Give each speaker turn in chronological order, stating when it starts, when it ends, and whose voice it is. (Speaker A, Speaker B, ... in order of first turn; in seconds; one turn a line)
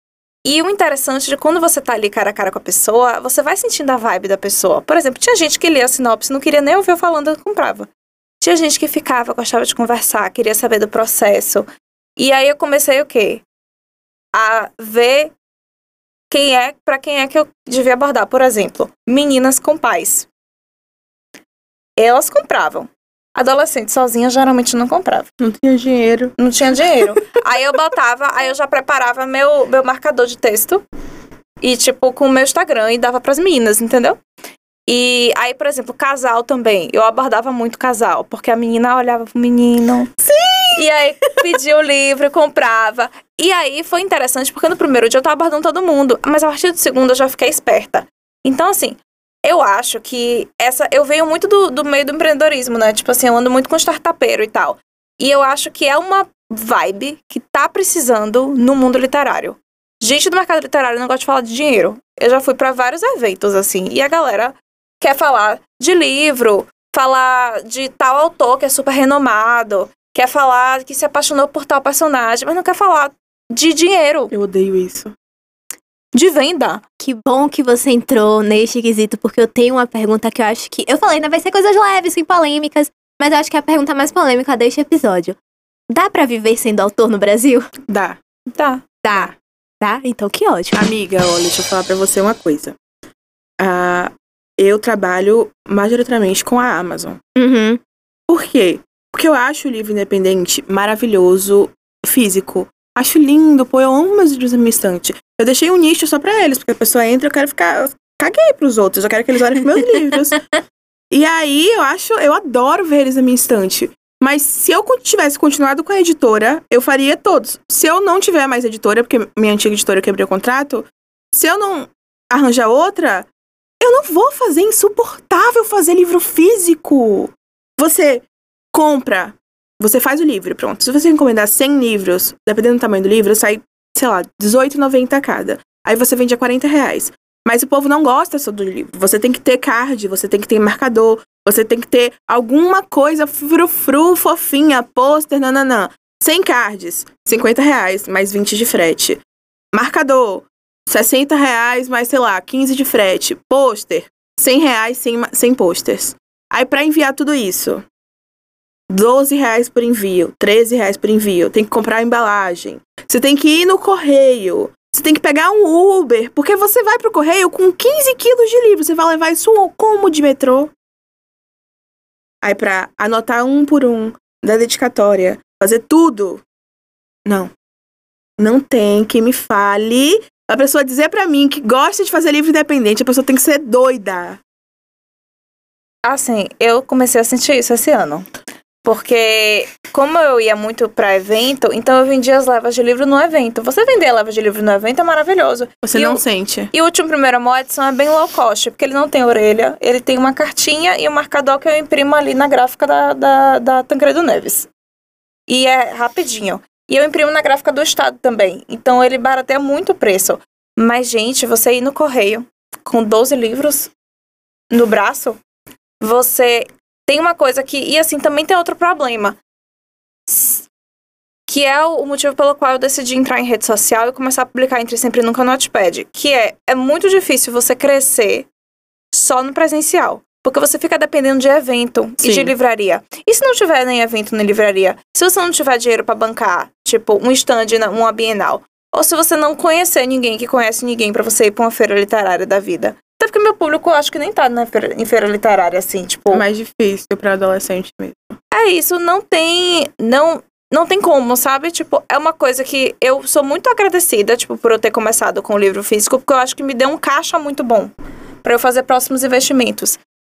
Speaker A: 0.5-7.9
Speaker A: 8.4-13.4
Speaker A: 14.3-15.3
Speaker A: 16.3-20.3
Speaker A: 22.0-25.3
Speaker B: 25.4-26.4
Speaker A: 26.4-30.8
Speaker A: 31.6-34.2
Speaker A: 34.9-40.1
Speaker B: 40.2-40.8
Speaker A: 40.8-74.3
Speaker B: 74.3-75.1
Speaker A: 76.1-76.8
Speaker C: 77.0-85.4
Speaker C: 85.9-87.7
Speaker B: 87.9-88.2
Speaker A: 88.5-88.9
Speaker C: 89.0-90.9
Speaker B: 90.7-92.8
Speaker B: 93.6-97.2
Speaker C: 97.3-97.8
Speaker B: 98.3-110.4
Speaker B: 111.1-123.3
Speaker B: 123.8-149.2
Speaker B: 149.7-157.8
Speaker B: 158.9-170.7
Speaker B: 172.4-176.4
Speaker B: 177.2-177.5
Speaker B: 178.4-184.4
Speaker A: 186.0-188.3
Speaker A: 188.8-204.7
Speaker B: 195.8-196.7
Speaker A: 205.5-213.9
Speaker A: 214.7-215.4
Speaker A: 216.0-219.4
Speaker A: 220.3-220.7
Speaker A: 221.5-228.5
Speaker A: 229.1-246.4
Speaker B: 232.2-232.5
Speaker B: 246.3-248.4
Speaker A: 248.5-257.9
Speaker A: 258.4-260.0